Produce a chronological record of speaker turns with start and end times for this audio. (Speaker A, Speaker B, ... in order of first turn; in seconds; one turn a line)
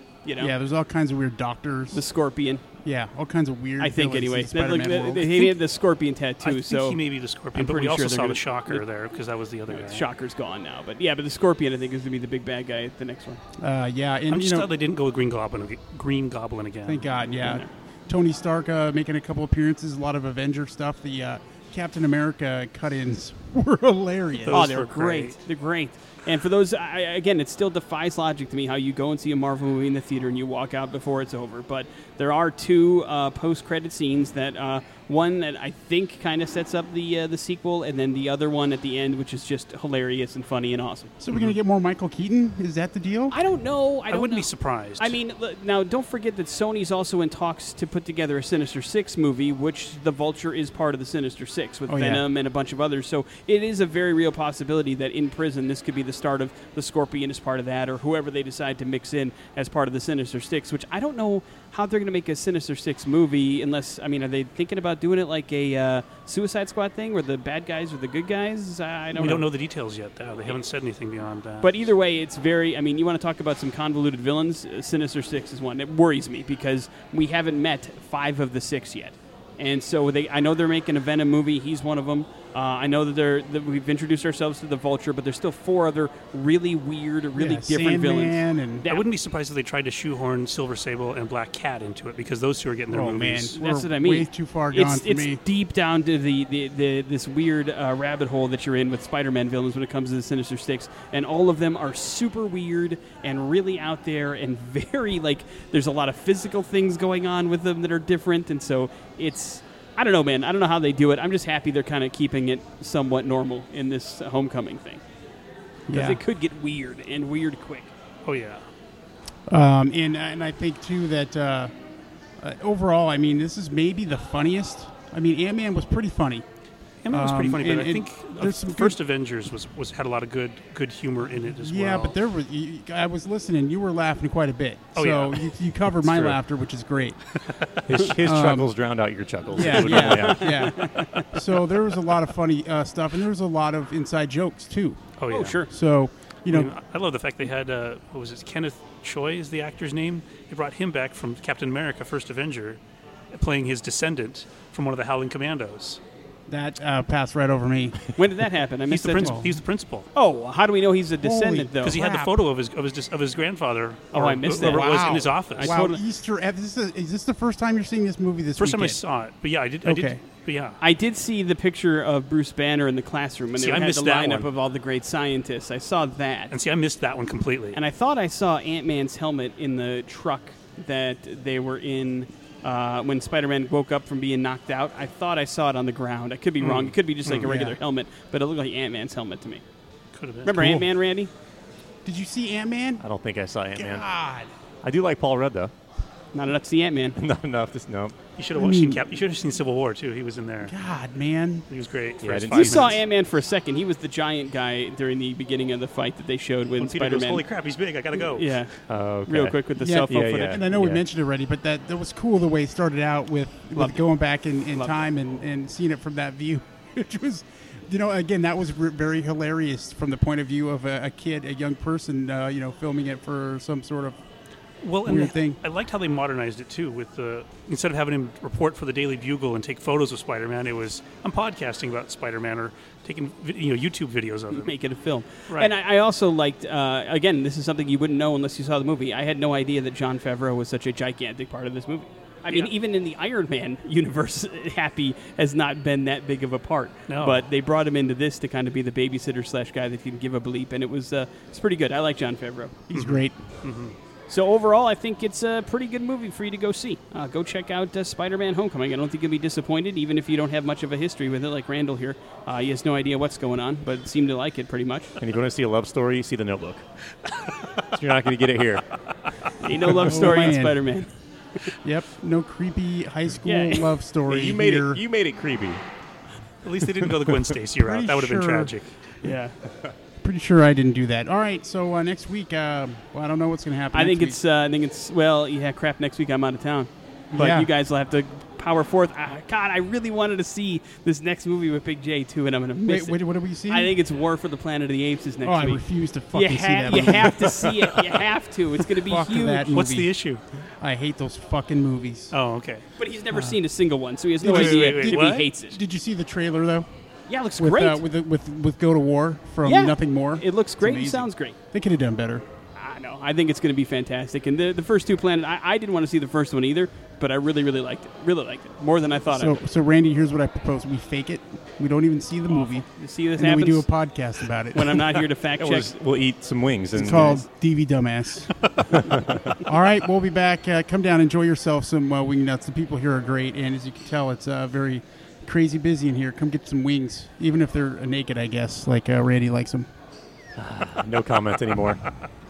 Speaker A: 0.2-0.5
Speaker B: 0.4-2.0
Speaker A: 1.9-2.6
Speaker B: 2.8-5.6
Speaker A: 3.8-7.0
Speaker C: 6.4-10.1
Speaker A: 7.5-8.8
Speaker A: 9.7-13.4
Speaker B: 13.6-14.7
Speaker C: 14.3-17.1
Speaker B: 16.9-24.7
Speaker A: 17.4-17.7
Speaker C: 24.4-25.4
Speaker A: 24.5-41.1
Speaker B: 41.2-43.4
Speaker A: 43.3-69.5
Speaker C: 44.1-45.2
Speaker B: 51.9-52.2
Speaker C: 69.2-71.9
Speaker A: 71.6-89.1
Speaker B: 87.4-88.8
Speaker C: 88.9-93.5
Speaker B: 92.9-95.4
Speaker A: 93.6-115.0
Speaker B: 115.9-116.2
Speaker A: 115.9-117.9
Speaker C: 118.2-118.7
Speaker B: 119.5-121.7
Speaker B: 122.4-126.5
Speaker C: 127.0-132.2
Speaker B: 127.1-129.0
Speaker B: 131.3-137.2
Speaker C: 134.9-136.4
Speaker C: 137.3-137.8
Speaker D: 137.9-140.6
Speaker B: 138.2-138.8
Speaker B: 139.5-146.7
Speaker A: 139.6-141.3
Speaker C: 145.2-145.6
Speaker A: 145.3-145.7
Speaker C: 146.5-152.8
Speaker C: 153.3-156.0
Speaker B: 156.5-158.0
Speaker A: 158.2-159.4
Speaker C: 158.9-160.1
Speaker B: 159.2-159.5
Speaker A: 160.2-162.2
Speaker B: 161.2-162.2
Speaker C: 161.8-165.7
Speaker A: 164.1-166.0
Speaker B: 164.5-169.0
Speaker C: 168.6-170.8
Speaker B: 169.8-170.2
Speaker A: 170.8-176.5
Speaker C: 173.6-174.5
Speaker C: 176.5-177.8
Speaker A: 177.7-189.6
Speaker C: 186.6-187.5
Speaker B: 187.4-187.8
Speaker C: 190.2-190.8
Speaker A: 190.4-191.3
Speaker B: 190.5-190.9
Speaker B: 192.1-193.1
Speaker D: 193.0-194.0
Speaker B: 193.7-194.5
Speaker D: 194.8-195.7
Speaker A: 196.3-197.2
Speaker D: 197.2-198.2
Speaker C: 198.4-200.8
Speaker B: 198.6-199.1
Speaker B: 200.6-201.7
Speaker C: 201.7-203.0
Speaker D: 202.2-203.0
Speaker A: 202.5-207.4
Speaker C: 206.8-208.6
Speaker A: 208.3-210.6
Speaker D: 208.9-211.0
Speaker B: 209.8-224.2
Speaker A: 213.8-214.0
Speaker C: 224.8-234.7
Speaker B: 225.0-225.6
Speaker A: 234.5-252.8
Speaker C: 247.1-247.4
Speaker B: 252.9-253.4
Speaker C: 252.9-254.0
Speaker A: 254.3-265.1
Speaker D: 265.2-266.9
Speaker D: 267.9-269.1
Speaker A: 269.6-271.1
Speaker B: 270.0-271.0
Speaker B: 271.8-275.0
Speaker A: 273.4-273.9
Speaker D: 274.3-275.8
Speaker C: 276.6-278.9
Speaker B: 277.8-278.8
Speaker A: 279.2-279.6
Speaker B: 280.2-284.4
Speaker A: 283.9-299.8
Speaker B: 287.3-287.7
Speaker B: 292.9-294.0
Speaker B: 295.4-298.0
Speaker B: 299.0-300.1
Speaker C: 299.7-300.4
Speaker B: 300.8-302.4
Speaker C: 302.3-302.9
Speaker A: 303.0-305.8
Speaker B: 303.3-303.6
Speaker B: 304.4-306.9
Speaker C: 304.4-305.5
Speaker A: 307.3-308.0
Speaker B: 307.6-312.4
Speaker A: 309.6-311.6
Speaker A: 312.8-319.6
Speaker B: 319.3-325.2
Speaker A: 322.5-323.9
Speaker A: 324.7-325.9
Speaker D: 325.5-327.4
Speaker B: 326.9-329.0
Speaker D: 329.0-329.4
Speaker B: 329.6-339.9
Speaker D: 340.6-342.1